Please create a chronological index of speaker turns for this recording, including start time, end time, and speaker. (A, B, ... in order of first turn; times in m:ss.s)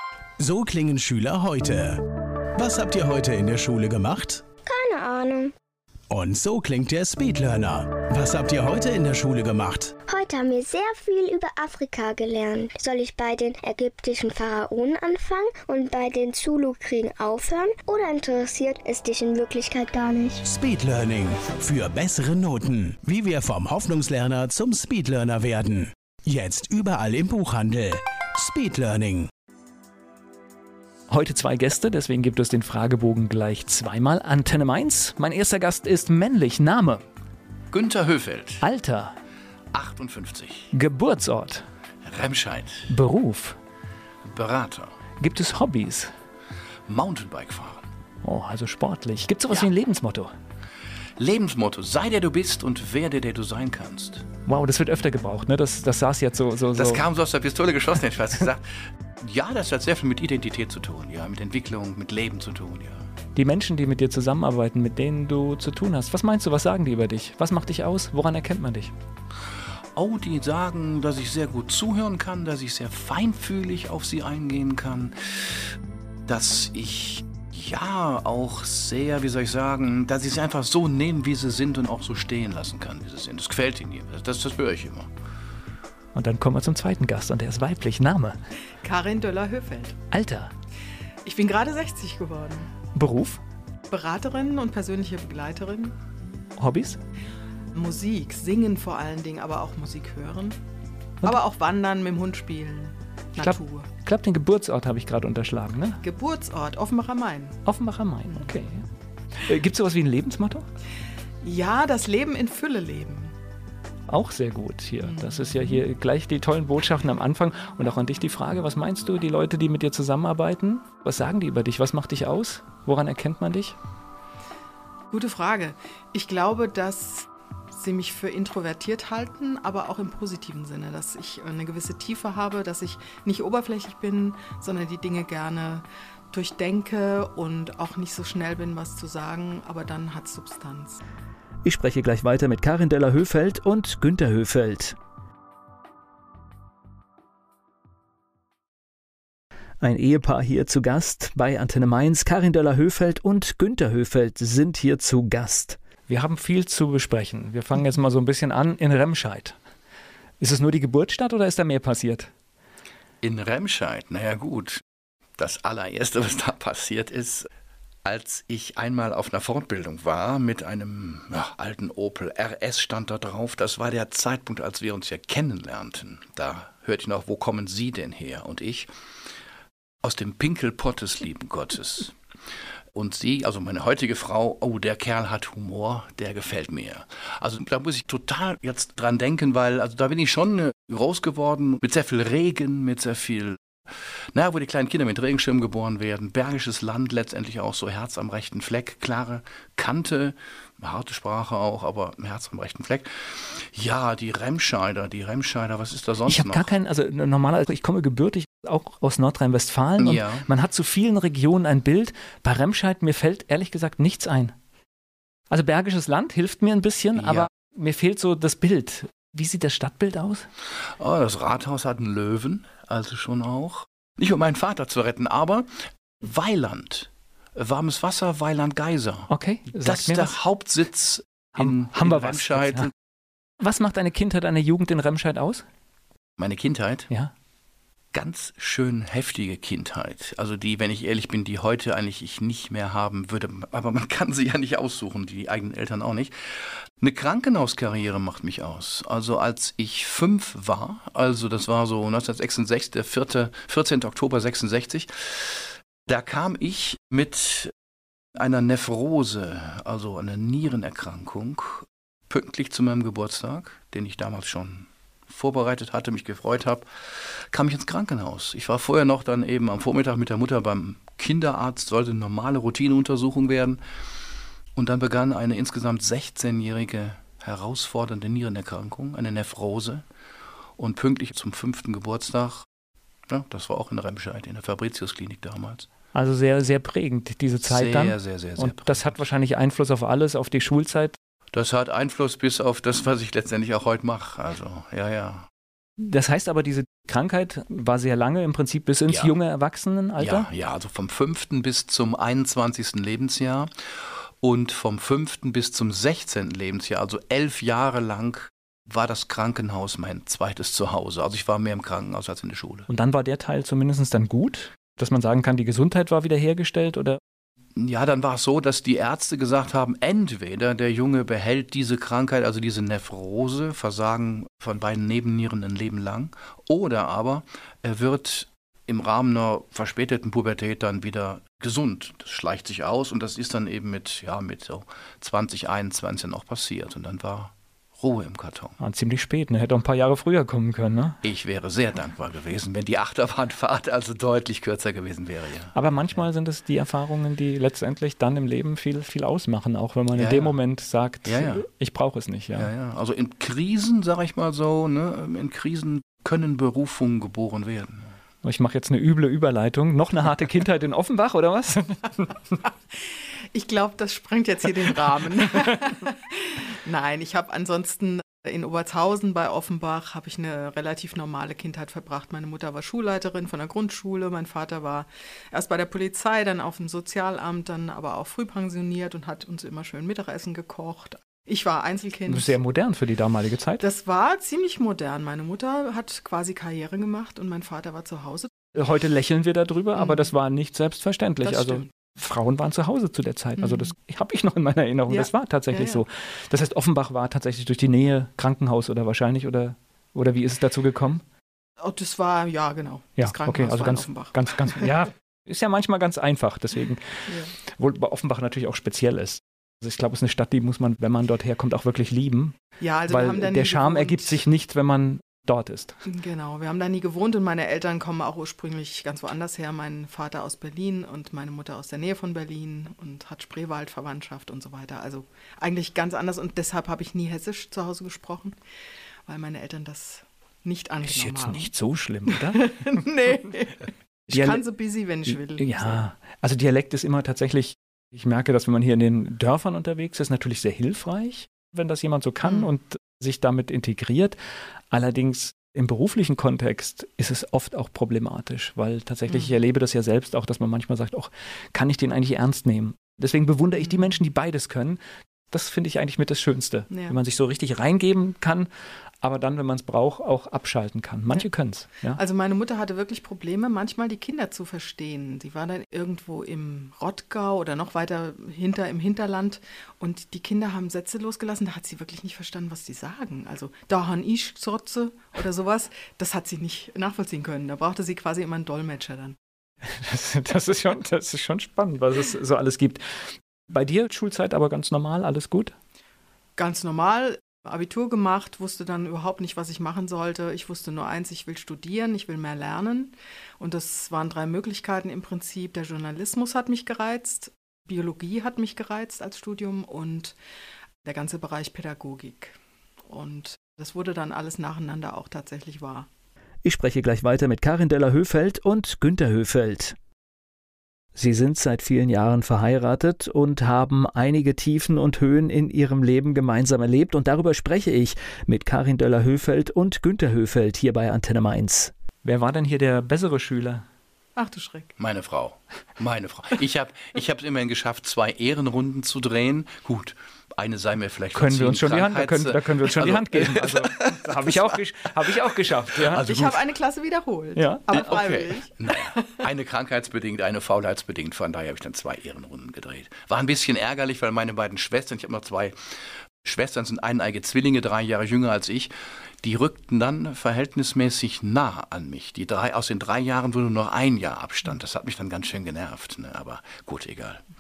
0:00.4-0:02.0 A
0:02.6-0:04.4 A
0:04.6-0:05.5 B
0:06.1-0:09.9 A
0:10.1-0:20.4 B
0:20.4-0:29.3 A
0:31.1-0:37.0 C
0:37.7-0:38.6 D
0:38.6-0:39.1 C
0:39.7-0:40.7 D
0:40.7-0:41.7 C
0:42.0-0:42.9 D
0:42.9-0:43.6 C
0:44.2-0:44.9 D
0:45.2-0:46.1 C
0:46.9-0:47.9 D
0:48.2-0:50.3 C
0:51.2-0:54.2 D
0:54.4-0:57.0 C
0:56.8-1:03.1 D
1:03.3-1:08.9 C
1:10.0-1:15.6 D
1:16.3-1:25.1 D
1:26.2-1:28.4 C
1:28.8-1:30.0 E
1:30.1-1:30.5 C
1:31.2-1:32.7 E
1:32.9-1:33.4 C
1:33.9-1:36.0 E
1:36.6-1:37.0 C
1:37.7-1:40.6 E
1:41.2-1:43.9 E
1:43.4-1:46.0 C
1:46.0-1:47.6 E
1:47.7-1:48.8 C
1:49.4-1:50.7 C
1:51.4-1:53.3 E
1:54.1-2:03.8 C
1:55.0-1:55.8 E
2:05.1-2:21.0 E
2:21.6-2:25.0 C
2:29.8-2:39.6 C
2:40.4-2:42.3 C
2:43.2-2:44.8 D
2:45.4-2:47.5 D
2:48.0-2:58.9 D
3:00.0-3:02.1 D
3:02.9-3:26.7 D
3:26.3-3:34.5 C
3:30.0-3:30.4 D
3:35.5-3:40.5 C
3:37.2-3:37.5 D
3:41.0-3:45.7 D
3:46.2-3:52.9 D
3:49.3-3:50.4 C
3:51.6-3:52.9 C
3:53.6-3:55.6 C
3:56.4-3:57.1 D
3:58.1-4:17.7 D
4:18.3-4:33.8 D
4:34.8-4:40.0 D
4:40.8-4:42.6 D
4:43.3-4:45.9 D
4:46.1-4:51.2 C
4:47.6-4:49.2 D
4:51.5-4:55.5 D
4:56.0-5:00.5 C
4:59.1-4:59.3 D
5:00.2-5:03.7 D
5:04.4-5:12.9 D
5:12.9-5:17.2 C
5:17.8-5:38.8 D
5:38.8-5:41.2 C
5:41.2-5:46.2 D
5:45.8-5:52.7 C
5:50.1-5:50.5 D
5:51.2-5:51.6 D
5:52.6-5:58.1 D
5:58.4-6:02.4 C
6:03.5-6:22.5 E
6:22.3-6:23.8 C
6:23.8-6:28.5 E
6:28.8-6:41.2 C
6:29.9-6:30.3 E
6:31.4-6:31.9 E
6:33.6-6:33.9 E
6:35.1-6:36.0 E
6:41.8-6:45.0 E
6:43.2-6:52.6 C
6:52.8-6:54.4 E
6:53.1-6:56.0 C
6:56.1-7:08.6 E
7:09.2-7:11.7 E
7:11.0-7:12.8 C
7:12.3-7:16.0 E
7:14.3-7:14.6 C
7:15.3-7:24.4 C
7:22.4-7:22.7 E
7:24.9-7:35.0 C
7:33.8-7:34.1 E
7:35.5-7:38.7 C
7:36.9-7:37.2 E
7:39.2-7:42.2 C
7:42.1-7:59.4 E
7:59.9-8:05.8 C
8:06.6-8:20.3 E
8:21.0-8:22.6 E
8:23.1-8:26.1 E
8:26.6-8:30.0 C
8:31.2-8:43.8 C
8:44.4-8:44.9 E
8:45.0-8:56.6 D
8:51.3-8:56.2 C
8:56.2-8:59.4 E
8:57.6-8:58.0 C
8:57.9-9:05.8 D
9:06.4-9:17.4 D